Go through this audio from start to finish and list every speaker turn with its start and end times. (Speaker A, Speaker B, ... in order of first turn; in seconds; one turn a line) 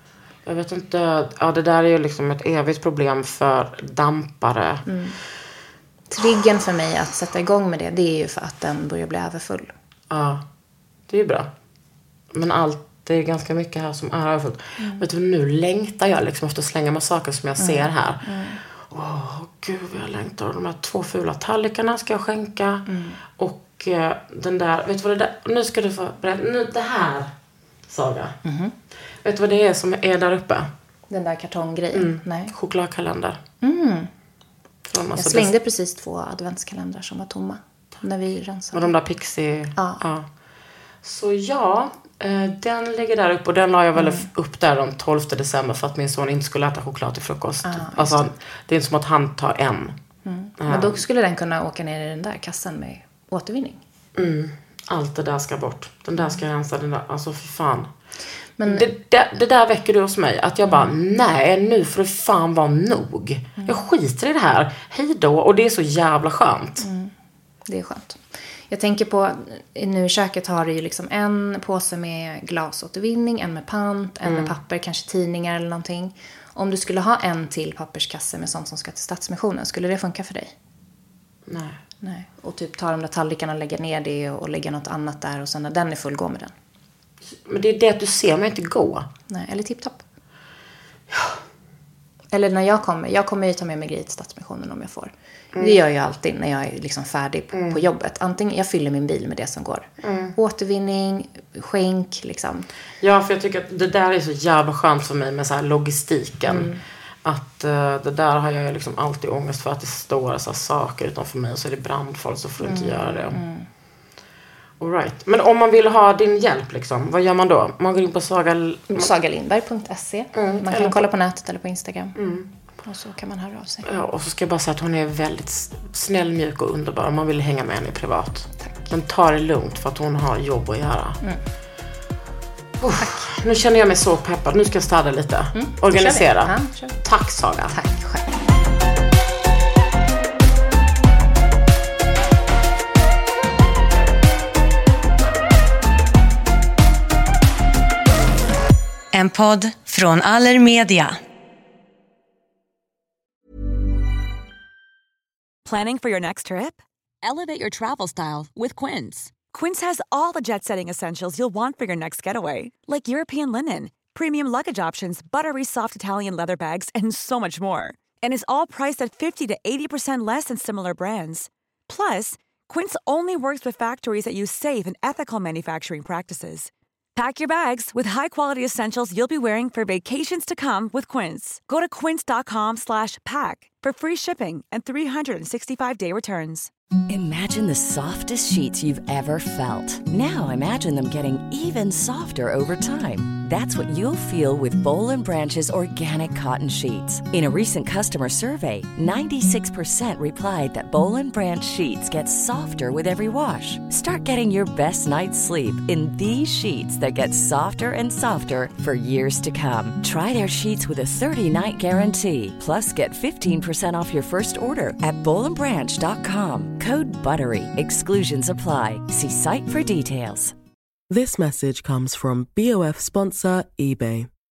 Speaker A: 0.5-4.8
Speaker B: 4.9-5.2
Speaker B: 6.1-9.7
Speaker A: 10.1-10.4
Speaker A: 11.1-11.5
Speaker A: 12.3-18.3
Speaker B: 14.8-15.1
Speaker B: 17.6-18.6
Speaker A: 18.9-27.3
Speaker B: 22.9-23.2
Speaker A: 27.9-28.4
Speaker B: 28.4-28.7
Speaker A: 29.2-30.7
Speaker B: 31.1-32.5
Speaker A: 31.9-33.4
Speaker B: 33.6-34.1
Speaker A: 34.9-35.5
Speaker B: 35.2-38.9
Speaker A: 38.7-40.3
Speaker B: 39.8-40.0
Speaker A: 41.0-50.0
Speaker B: 44.0-44.3
Speaker B: 47.6-48.3
Speaker B: 50.2-53.8
Speaker A: 50.6-51.0
Speaker A: 54.2-57.9
Speaker B: 58.6-58.9
Speaker A: 58.6-66.8
Speaker B: 60.6-60.9
Speaker B: 66.8-67.1
Speaker B: 67.7-80.5
Speaker A: 74.2-74.5
Speaker A: 81.5-81.8
Speaker B: 82.0-86.5
Speaker A: 87.3-89.1
Speaker B: 89.3-90.0
Speaker B: 92.3-102.7
Speaker A: 97.5-97.8
Speaker A: 100.0-100.4
Speaker A: 103.0-106.7
Speaker B: 106.5-106.8
Speaker A: 107.2-113.4
Speaker B: 112.6-113.7
Speaker A: 114.8-119.1
Speaker B: 118.9-122.2
Speaker A: 120.3-121.1
Speaker A: 122.2-122.5
Speaker B: 122.8-123.9
Speaker A: 123.8-131.2
Speaker A: 132.8-137.8
Speaker B: 135.5-137.0
Speaker B: 137.7-138.3
Speaker C: 149.1-151.2
Speaker D: 155.7-186.7
Speaker E: 187.1-220.5
Speaker F: 221.1-224.3